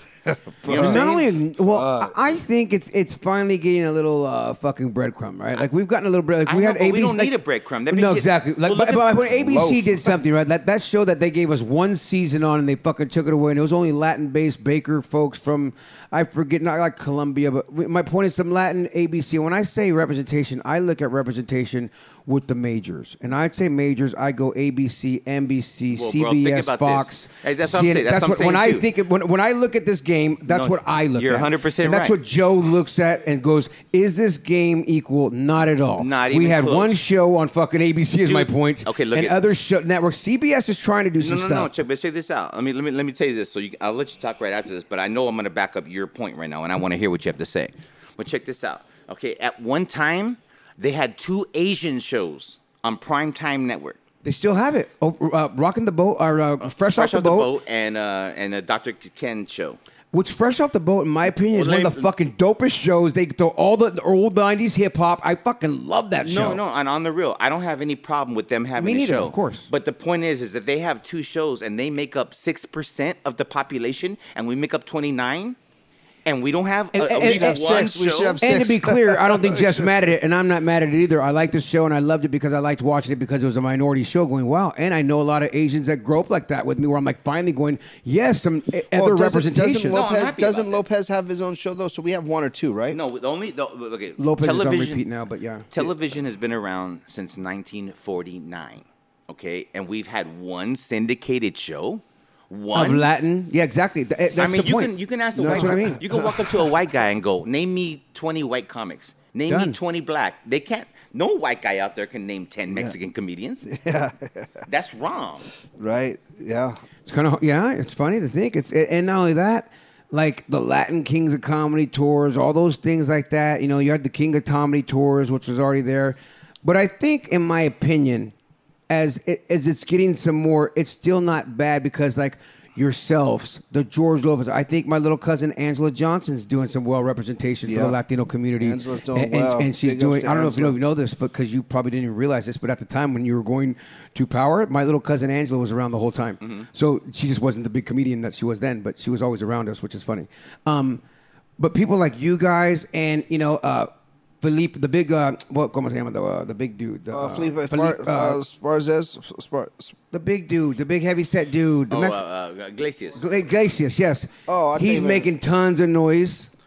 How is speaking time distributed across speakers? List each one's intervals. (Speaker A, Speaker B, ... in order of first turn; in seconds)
Speaker A: 0.3-1.1, 1.6-2.2, 9.4-10.1, 77.2-80.0, 88.9-93.0, 105.4-106.4, 113.7-114.5, 115.8-116.8, 137.7-138.0, 138.6-140.8, 157.1-159.9, 164.5-165.3
Speaker B: 0.7-1.4, 6.5-9.3, 25.9-28.9, 30.5-32.2, 36.0-37.0, 38.2-39.4, 41.2-54.0, 56.6-59.8, 61.5-62.1, 66.2-75.6, 76.2-78.4, 89.9-90.8, 92.9-95.0, 95.7-103.1, 104.4-113.6, 114.7-115.5, 146.4-146.7, 161.9-163.2
Speaker C: 0.7-41.8, 54.2-57.5, 60.1-66.6, 68.8-69.7, 76.9-77.9, 78.4-90.1, 94.2-95.7, 102.7-106.0, 109.5-109.8, 117.1-128.3, 128.9-151.0, 151.6-153.9, 154.4-158.4, 160.1-162.2, 163.2-166.5